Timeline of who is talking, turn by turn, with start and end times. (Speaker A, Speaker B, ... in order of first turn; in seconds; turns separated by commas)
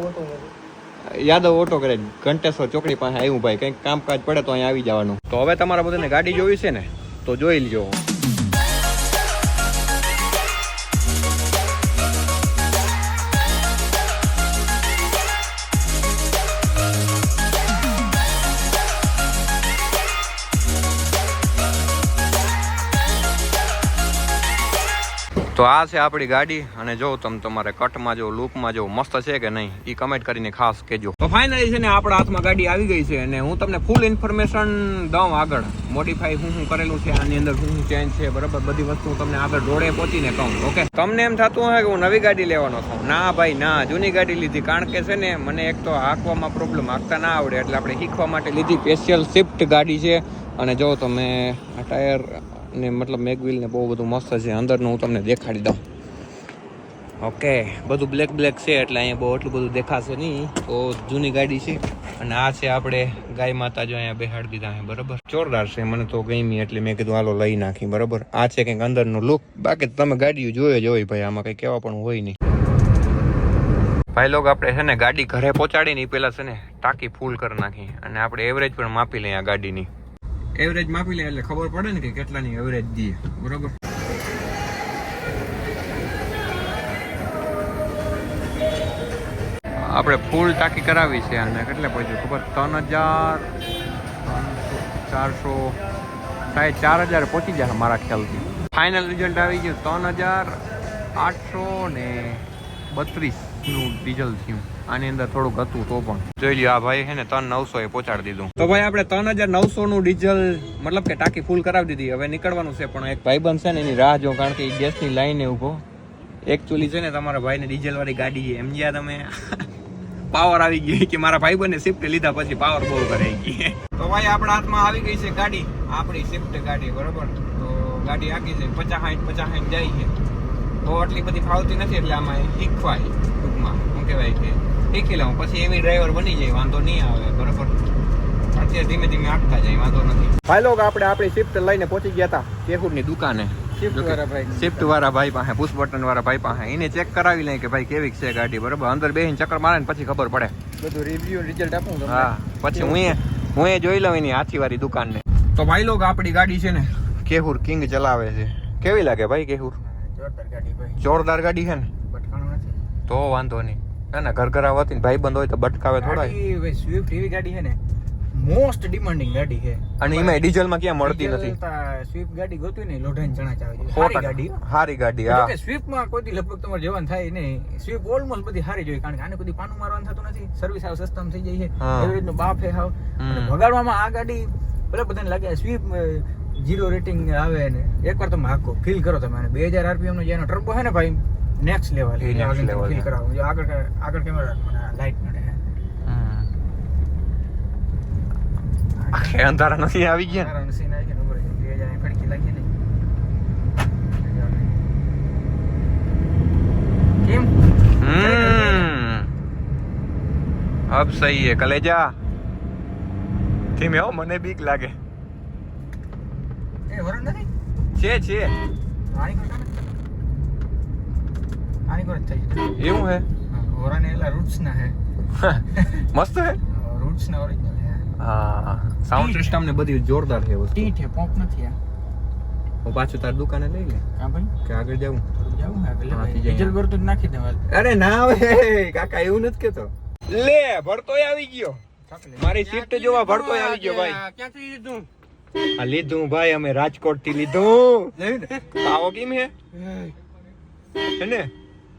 Speaker A: 1.0-8.0, Speaker A: 25.6-55.8, Speaker A: 57.2-72.4, Speaker A: 74.2-79.9, Speaker A: 80.6-83.8, Speaker A: 89.8-93.5, Speaker A: 94.2-95.8, Speaker A: 96.5-100.6, Speaker A: 101.2-115.8, Speaker A: 116.5-119.7, Speaker A: 120.3-130.1, Speaker A: 130.8-137.7, Speaker A: 138.5-150.5, Speaker B: 143.8-144.9, Speaker B: 150.8-153.1, Speaker A: 152.1-159.8, Speaker B: 159.8-161.0, Speaker A: 161.0-161.9, Speaker B: 162.1-162.9, Speaker A: 163.1-166.3, Speaker B: 166.0-167.8, Speaker B: 168.3-170.4, Speaker A: 170.0-171.6, Speaker B: 171.0-174.6, Speaker A: 173.8-175.5, Speaker B: 175.3-195.6, Speaker A: 181.8-182.2, Speaker A: 183.2-183.6, Speaker A: 192.2-193.1, Speaker A: 196.1-196.5, Speaker B: 199.0-199.4, Speaker A: 199.1-200.5, Speaker B: 200.2-202.7, Speaker B: 204.2-204.8, Speaker B: 207.2-207.5, Speaker A: 208.0-209.3, Speaker B: 208.1-208.9, Speaker A: 210.9-212.2, Speaker A: 213.8-214.9, Speaker B: 216.9-217.5, Speaker A: 218.0-218.6, Speaker B: 219.1-219.8, Speaker B: 221.9-222.8, Speaker A: 222.8-223.3, Speaker B: 223.5-225.0, Speaker A: 225.3-226.6, Speaker B: 226.7-228.1, Speaker A: 228.2-230.9, Speaker B: 229.1-229.6, Speaker B: 230.8-231.8, Speaker A: 232.8-234.0, Speaker B: 234.2-234.5, Speaker A: 234.6-235.2, Speaker B: 235.3-237.6, Speaker A: 236.1-236.8, Speaker A: 237.7-241.8, Speaker B: 242.1-242.5, Speaker A: 242.4-244.2, Speaker C: 242.6-245.1, Speaker A: 245.8-248.2, Speaker B: 248.2-248.5, Speaker A: 248.7-249.5, Speaker C: 249.7-250.1, Speaker A: 251.1-251.5